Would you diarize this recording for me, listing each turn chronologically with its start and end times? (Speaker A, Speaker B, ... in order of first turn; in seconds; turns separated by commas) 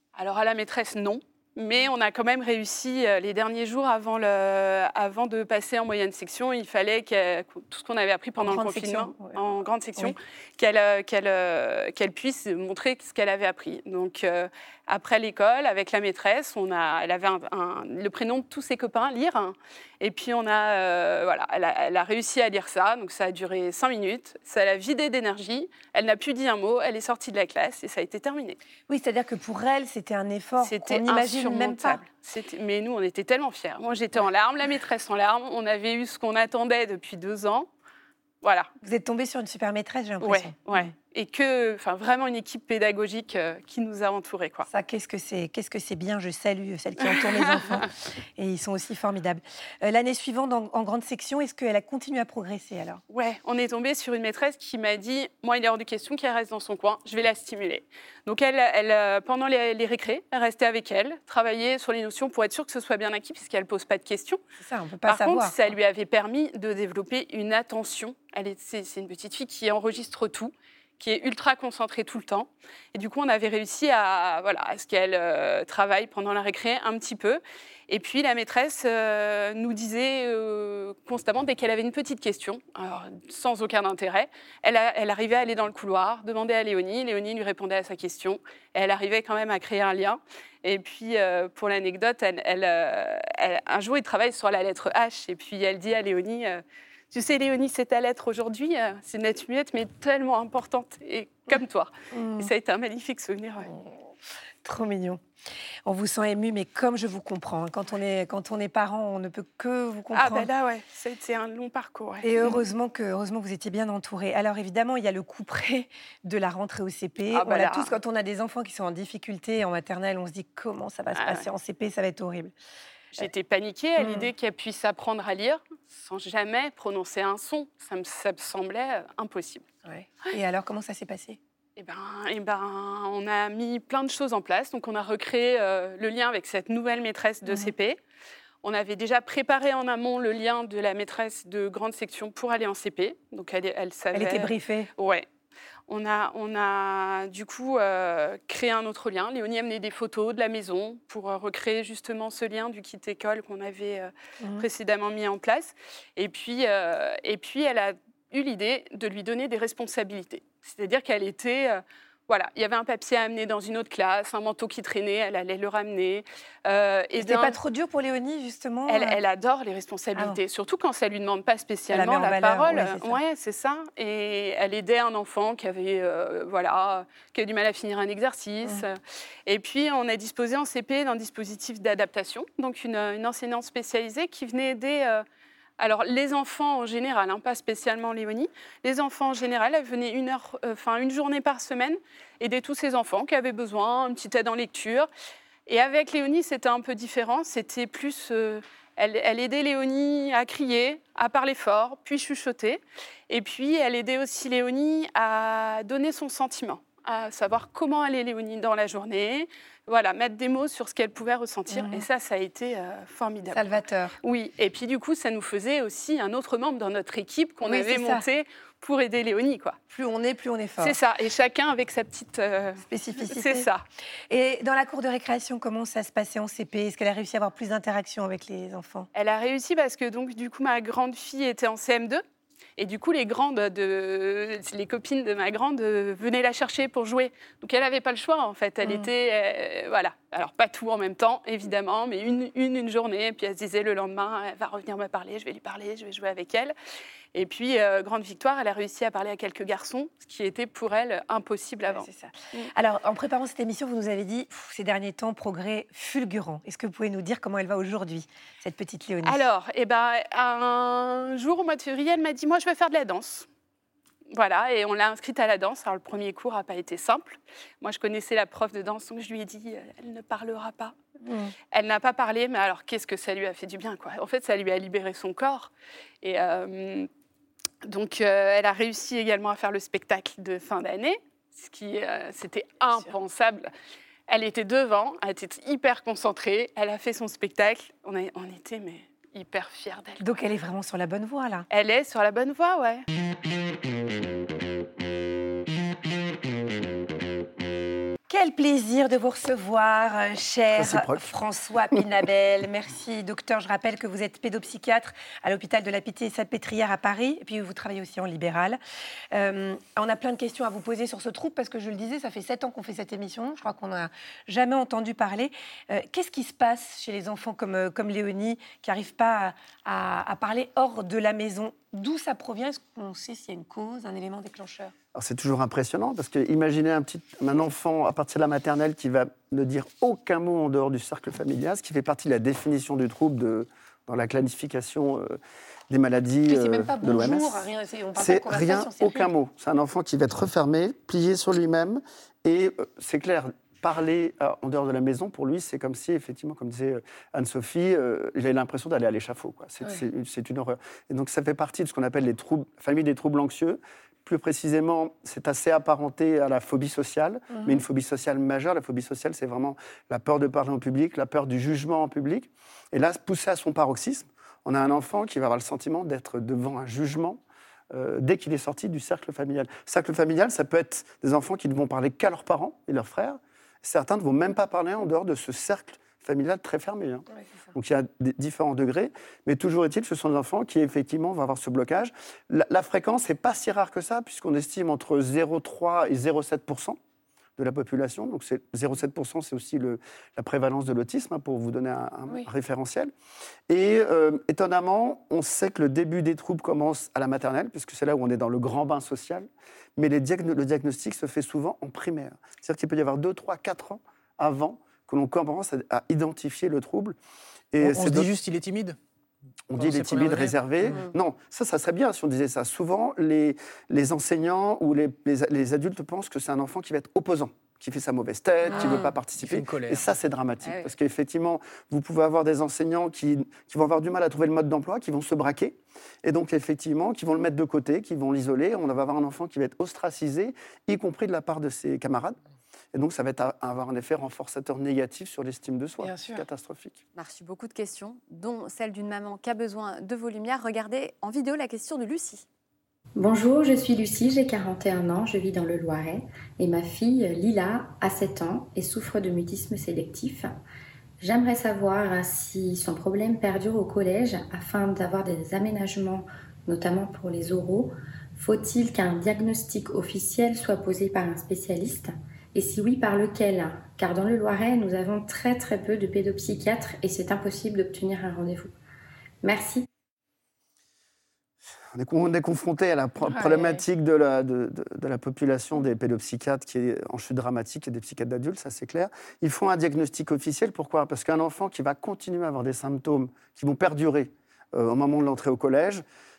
Speaker A: 0.1-28.6, Speaker B: 8.4-9.4, Speaker B: 28.9-32.0, Speaker A: 30.6-37.7, Speaker A: 38.4-38.7, Speaker B: 38.8-40.9, Speaker A: 40.2-44.7, Speaker B: 44.7-53.0, Speaker A: 47.0-47.9, Speaker A: 53.1-64.4, Speaker B: 64.6-65.5, Speaker A: 65.1-103.7, Speaker B: 102.1-102.5, Speaker B: 103.7-104.0, Speaker B: 104.6-105.2, Speaker B: 105.8-110.5, Speaker A: 110.1-112.6, Speaker B: 112.2-122.5, Speaker A: 117.3-117.9, Speaker A: 121.1-121.5, Speaker A: 123.2-129.7, Speaker B: 124.0-124.3, Speaker B: 129.8-131.4, Speaker A: 131.8-138.0, Speaker B: 137.4-137.7, Speaker A: 138.6-145.2, Speaker B: 144.1-144.9, Speaker A: 145.9-167.6, Speaker B: 154.4-154.6, Speaker B: 167.2-169.2, Speaker A: 168.9-185.2, Speaker B: 171.9-173.2, Speaker A: 185.8-195.1, Speaker A: 195.7-219.8, Speaker B: 211.7-212.0, Speaker B: 213.5-214.2, Speaker B: 217.6-218.2, Speaker B: 219.9-220.9, Speaker A: 220.8-223.8, Speaker B: 222.9-223.7, Speaker B: 224.3-229.1, Speaker A: 229.1-232.2, Speaker A: 232.8-246.7, Speaker B: 238.8-239.1, Speaker A: 247.3-252.7, Speaker B: 251.8-259.4, Speaker A: 259.2-263.5, Speaker A: 264.3-270.9, Speaker B: 271.2-271.5, Speaker A: 271.7-275.7, Speaker A: 276.2-277.1, Speaker A: 277.8-283.7, Speaker A: 284.3-290.2, Speaker B: 290.2-291.6, Speaker A: 291.7-293.1, Speaker B: 298.3-308.8, Speaker C: 300.7-301.3, Speaker B: 309.3-324.9, Speaker C: 325.1-367.4, Speaker B: 336.5-339.3, Speaker B: 357.5-357.8, Speaker C: 367.9-387.0, Speaker C: 387.6-393.1, Speaker C: 393.7-407.2, Speaker C: 407.7-408.3, Speaker D: 407.8-409.0, Speaker C: 409.7-432.4, Speaker D: 409.7-411.0, Speaker D: 418.7-420.1, Speaker E: 420.6-420.9, Speaker C: 432.9-437.0, Speaker B: 436.0-436.4, Speaker E: 437.1-442.4, Speaker F: 443.1-450.5, Speaker F: 451.2-468.7, Speaker F: 469.4-469.9, Speaker C: 471.9-486.0, Speaker B: 473.2-473.8